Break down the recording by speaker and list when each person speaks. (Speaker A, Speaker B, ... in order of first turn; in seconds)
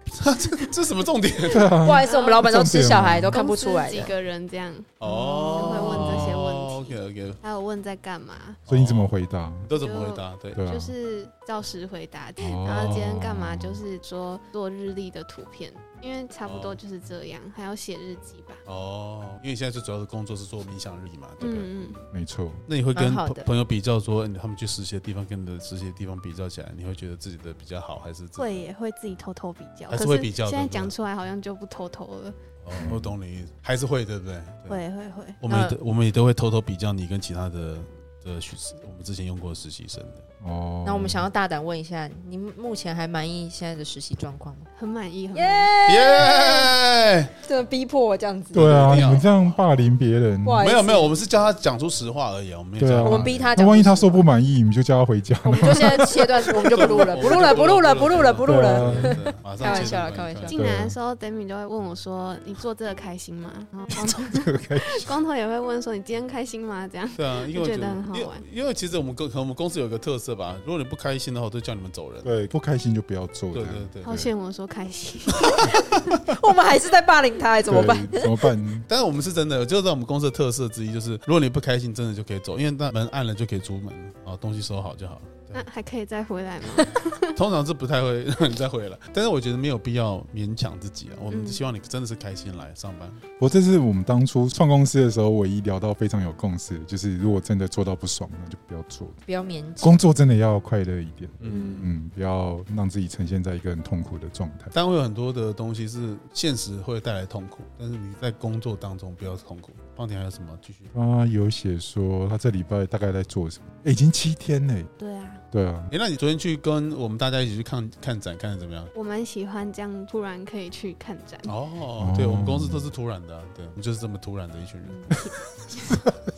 Speaker A: 0.1-1.7, 5.0-7.4, 8.7-9.1, 9.6-10.6, 16.4-16.8, 18.6-21.9, 22.7-28.5, 29.9-30.9, 32.6-34.8, 35.4-40.2, 45.9-47.3, 48.5-49.6, 50.6-53.5, 56.0-60.5, 67.2-72.3, 73.5-74.2, 75.5-75.7, 78.9-85.6, 87.3-93.2, 101.4-101.9, 104.7-110.9, 115.9-118.9, 121.4-125.1
Speaker B: 1.4-3.4, 5.8-6.4, 8.7-9.7, 10.5-10.9, 12.4-13.8, 22.1-22.6, 32.7-33.1, 40.4-41.3, 48.5-50.7, 52.8-56.9, 58.4-59.2, 60.5-61.0, 63.9-65.1, 72.2-74.3, 77.7-78.9, 93.4-99.2, 99.8-104.7, 110.9-114.9, 115.5-115.9, 122.0-122.9, 125.9-126.1
Speaker C: 1.8-4.1, 5.0-6.0, 22.9-23.5, 35.5-35.8, 40.8-44.7, 45.3-46.7, 47.4-48.8, 50.4-51.1, 53.0-54.3, 55.4-60.5, 76.2-78.3, 99.3-100.0
Speaker D: 2.0-2.4, 3.3-8.6, 9.8-18.6, 21.4-22.0, 28.4-32.4, 34.7-35.4, 44.8-45.7, 59.6-68.4, 74.0-75.9, 85.5-87.4, 91.3-91.6, 101.5-101.8, 115.0-115.4, 118.9-121.5, 124.8-125.9